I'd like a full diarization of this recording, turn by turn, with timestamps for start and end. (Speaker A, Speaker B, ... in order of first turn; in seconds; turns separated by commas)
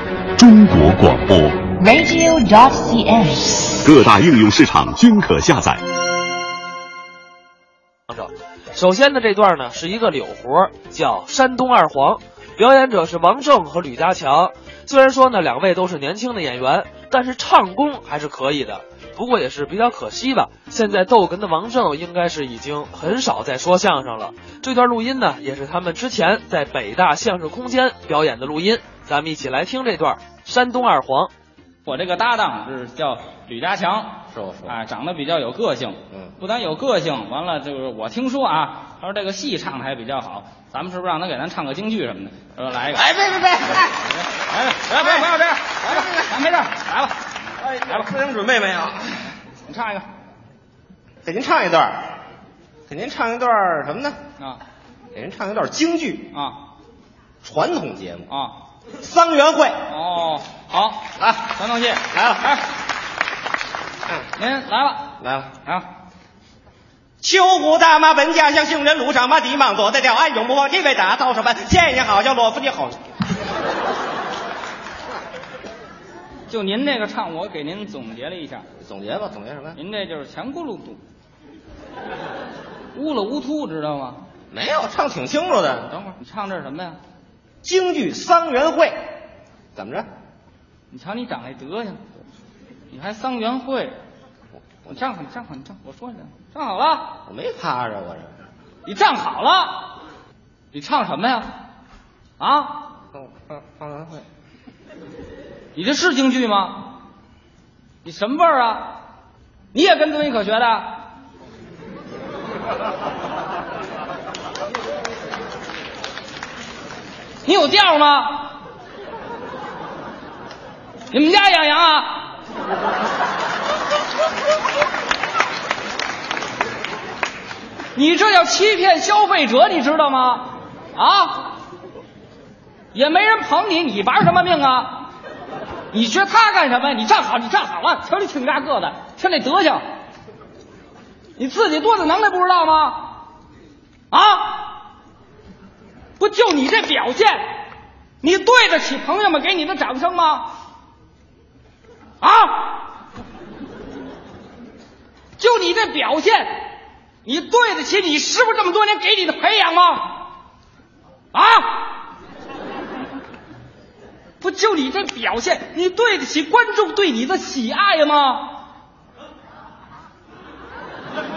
Speaker A: 0.3-1.7, Speaker B: 1.7-3.8, Speaker A: 3.8-5.8, Speaker C: 8.1-31.3, Speaker D: 31.8-43.1, Speaker E: 34.3-34.8, Speaker E: 42.9-44.0, Speaker D: 44.3-47.1, Speaker E: 45.0-45.2, Speaker E: 45.8-46.3, Speaker E: 47.6-49.3, Speaker D: 47.9-48.1, Speaker D: 49.6-50.0, Speaker E: 51.2-52.0, Speaker E: 52.9-54.2, Speaker E: 55.1-56.3, Speaker D: 56.3-56.6, Speaker E: 57.4-58.3, Speaker D: 58.3-58.6, Speaker E: 59.0-59.8, Speaker D: 59.9-62.6, Speaker E: 61.2-61.5, Speaker E: 62.1-62.6, Speaker D: 64.4-65.1, Speaker E: 65.2-65.5, Speaker E: 67.2-73.0, Speaker D: 76.5-78.6, Speaker E: 78.8-79.8, Speaker D: 79.8-81.0, Speaker D: 82.9-84.2, Speaker E: 84.5-85.9, Speaker D: 85.9-87.0, Speaker E: 87.6-89.0, Speaker E: 89.8-90.1, Speaker D: 90.9-92.0, Speaker D: 92.9-94.0, Speaker D: 94.9-97.2, Speaker E: 97.2-98.3, Speaker D: 98.8-100.0, Speaker D: 100.7-101.5, Speaker D: 102.4-102.9, Speaker E: 103.1-104.2, Speaker D: 105.7-107.0, Speaker D: 108.0-109.0, Speaker D: 109.7-111.0, Speaker D: 117.4-118.5, Speaker D: 121.1-122.3, Speaker D: 127.9-131.5, Speaker D: 132.9-135.1, Speaker D: 135.9-139.8, Speaker D: 141.3-143.2, Speaker D: 144.1-144.8, Speaker D: 146.2-147.4, Speaker D: 148.2-150.5, Speaker D: 152.2-152.8, Speaker D: 155.4-156.7, Speaker D: 157.2-160.2, Speaker D: 161.3-162.0, Speaker D: 164.4-168.6